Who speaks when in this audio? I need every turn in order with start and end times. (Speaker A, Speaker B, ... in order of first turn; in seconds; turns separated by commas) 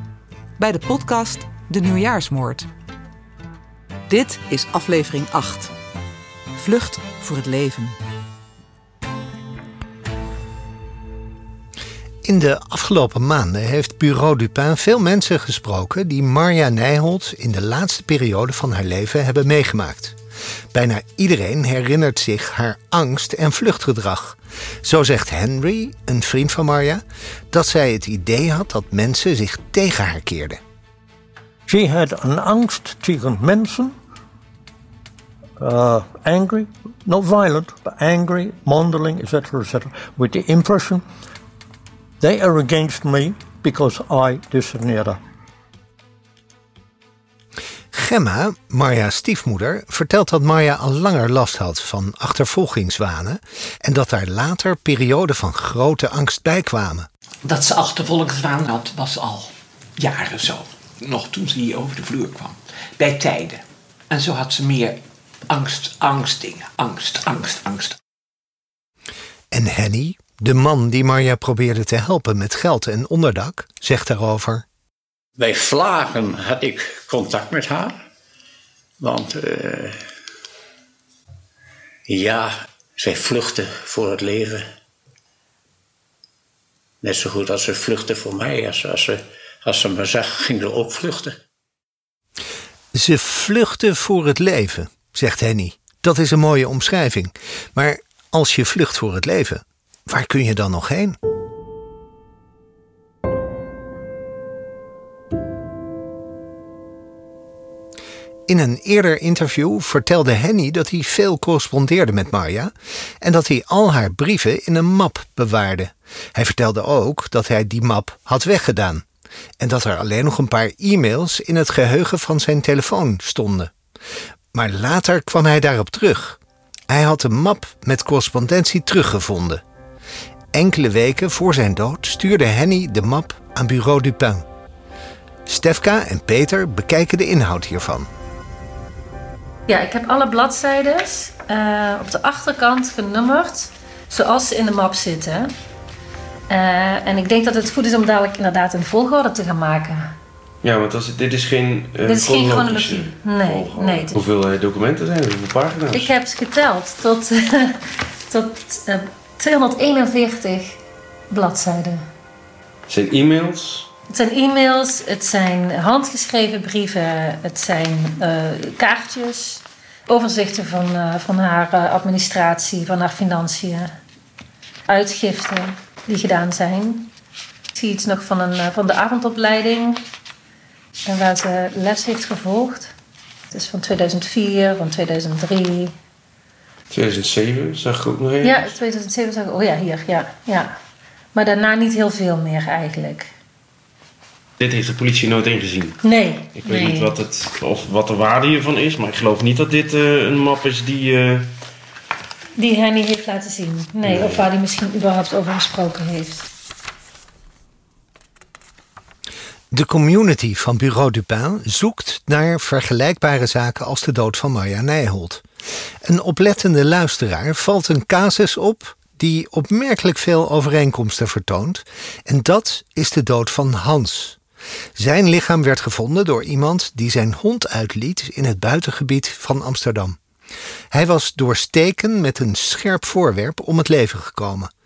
Speaker A: 0.6-2.7, Speaker A: 4.1-5.7, Speaker A: 6.6-8.0, Speaker B: 12.2-20.2, Speaker B: 20.7-30.6, Speaker C: 31.7-34.0, Speaker C: 35.6-41.0, Speaker C: 42.2-45.2, Speaker B: 47.9-57.1, Speaker D: 57.5-68.0, Speaker B: 69.5-74.7, Speaker E: 75.4-78.0, Speaker E: 79.0-80.0, Speaker E: 82.1-84.7, Speaker E: 87.0-91.4, Speaker B: 92.9-101.2, Speaker B: 108.5-119.0, Speaker B: 119.6-123.7, Speaker B: 124.5-129.6, Speaker B: 130.5-134.5, Speaker B: 135.5-138.1, Speaker F: 139.7-145.5, Speaker F: 146.5-150.2, Speaker G: 150.6-156.1, Speaker F: 152.0-154.2, Speaker F: 155.9-160.8, Speaker F: 161.3-162.1, Speaker G: 162.9-163.9, Speaker F: 164.1-174.0, Speaker F: 174.9-177.1, Speaker F: 177.8-180.0, Speaker F: 181.1-182.9, Speaker F: 183.5-185.9, Speaker G: 186.9-188.8, Speaker F: 188.4-190.8, Speaker F: 191.3-193.3, Speaker G: 194.6-196.0, Speaker F: 196.0-197.1, Speaker G: 196.6-201.5, Speaker F: 202.6-206.5, Speaker G: 204.0-204.5, Speaker B: 209.7-215.4, Speaker B: 216.0-224.4, Speaker B: 225.0-230.2, Speaker B: 230.9-234.7